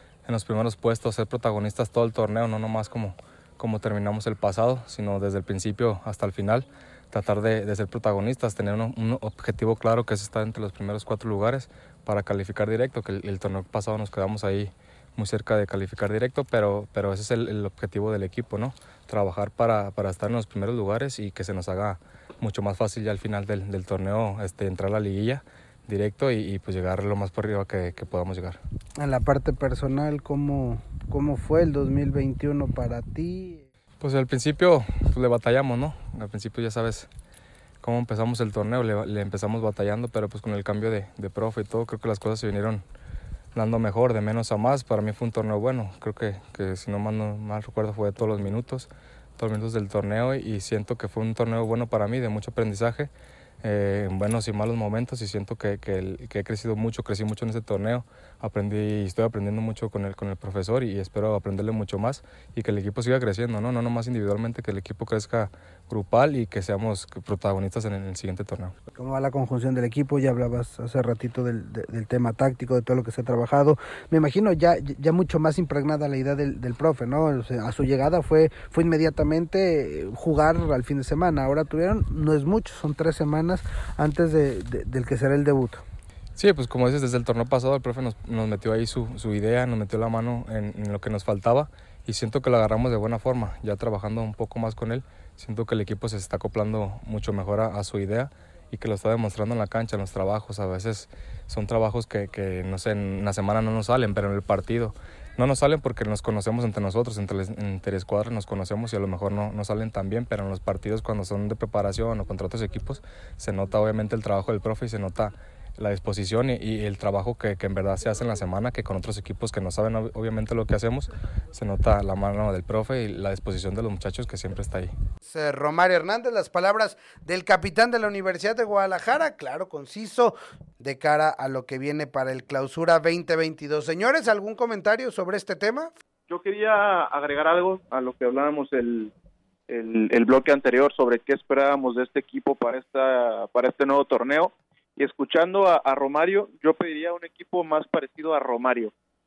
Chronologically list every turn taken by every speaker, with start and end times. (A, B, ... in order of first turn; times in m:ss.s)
0:00.3-0:28.6 A
0:29.0-0:33.7 B
0:34.0-0:37.1 A
0:37.8-0:42.8 A
0:43.6-0:53.1 A
0:53.6-1:08.8 A
1:09.0-1:25.8 B
1:26.4-2:04.9 A
2:05.2-2:15.9 B
2:16.3-2:19.1 C
2:19.7-2:28.9 C